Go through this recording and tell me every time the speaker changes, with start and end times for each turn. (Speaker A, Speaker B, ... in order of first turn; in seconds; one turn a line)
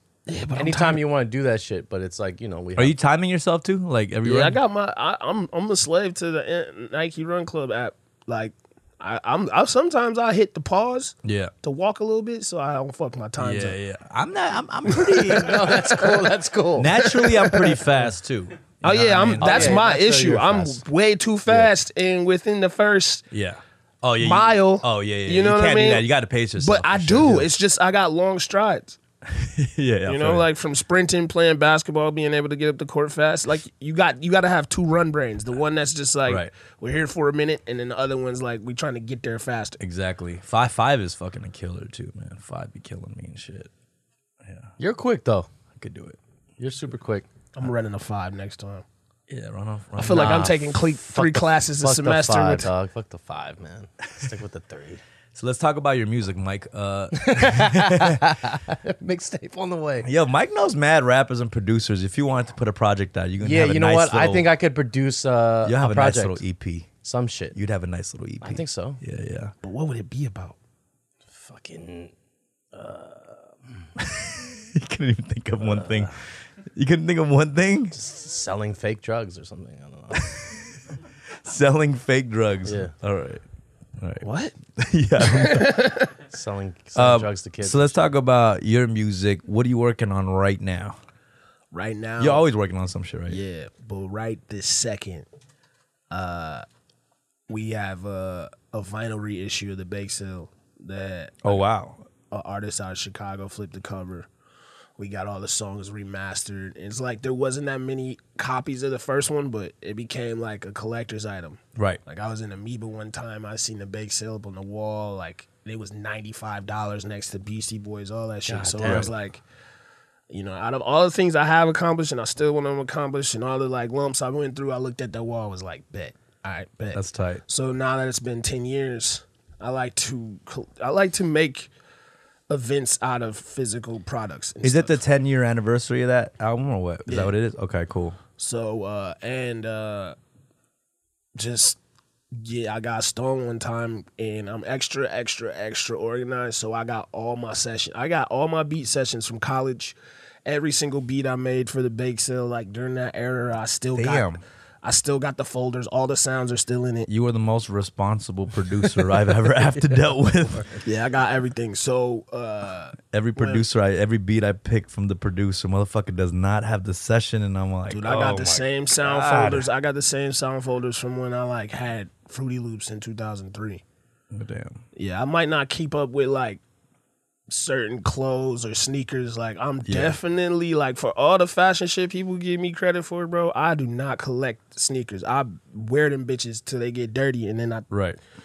Speaker A: 0.3-1.0
Speaker B: 0.5-3.0
Speaker C: 2.8-4.6
Speaker A: 4.2-13.8
Speaker C: 11.2-11.5
Speaker C: 13.4-15.7
Speaker A: 14.9-16.2
Speaker B: 15.2-17.1
Speaker C: 16.8-19.8
Speaker A: 17.0-17.9
Speaker A: 18.8-23.2
Speaker B: 19.4-20.8
Speaker C: 23.3-27.5
Speaker A: 24.2-26.1
Speaker A: 26.6-29.0
Speaker C: 29.3-30.4
Speaker A: 30.1-39.8
Speaker C: 39.8-43.7
Speaker C: 44.4-44.7
Speaker B: 44.8-45.5
Speaker C: 45.7-46.2
Speaker B: 46.6-47.2
Speaker A: 47.5-48.8
Speaker C: 49.3-50.5
Speaker A: 50.0-52.7
Speaker B: 50.0-55.0
Speaker C: 55.3-58.3
Speaker B: 57.1-60.1
Speaker C: 60.0-64.5
Speaker B: 63.4-66.4
Speaker C: 65.6-66.9
Speaker B: 67.0-67.6
Speaker C: 67.5-69.5
Speaker B: 68.4-69.0
Speaker A: 69.6-70.5
Speaker B: 71.3-72.1
Speaker B: 72.7-73.9
Speaker C: 74.0-76.2
Speaker B: 75.6-76.1
Speaker C: 76.7-78.0
Speaker B: 77.9-80.3
Speaker C: 80.1-80.6
Speaker C: 81.4-83.4
Speaker B: 82.7-82.9
Speaker C: 84.0-85.9
Speaker A: 84.2-84.5
Speaker A: 85.2-86.1
Speaker B: 86.3-88.0
Speaker C: 87.0-91.0
Speaker A: 91.7-92.4
Speaker C: 92.2-93.4
Speaker A: 93.3-95.2
Speaker A: 96.1-96.6
Speaker A: 97.5-101.6
Speaker C: 101.4-102.0
Speaker A: 102.3-104.3
Speaker A: 105.0-119.4
Speaker B: 118.5-119.1
Speaker C: 118.8-119.1
Speaker A: 120.3-131.7
Speaker C: 126.9-127.4
Speaker A: 132.5-135.0
Speaker C: 134.6-138.2
Speaker A: 137.1-137.3
Speaker A: 138.4-140.2
Speaker A: 141.3-141.8
Speaker A: 142.3-157.1
Speaker C: 153.9-154.4
Speaker C: 157.1-160.8
Speaker A: 160.8-163.6
Speaker C: 163.1-169.7
Speaker A: 167.9-173.8
Speaker C: 174.3-174.8
Speaker A: 174.9-176.6
Speaker A: 177.5-187.9
Speaker C: 179.8-180.2
Speaker C: 187.9-188.2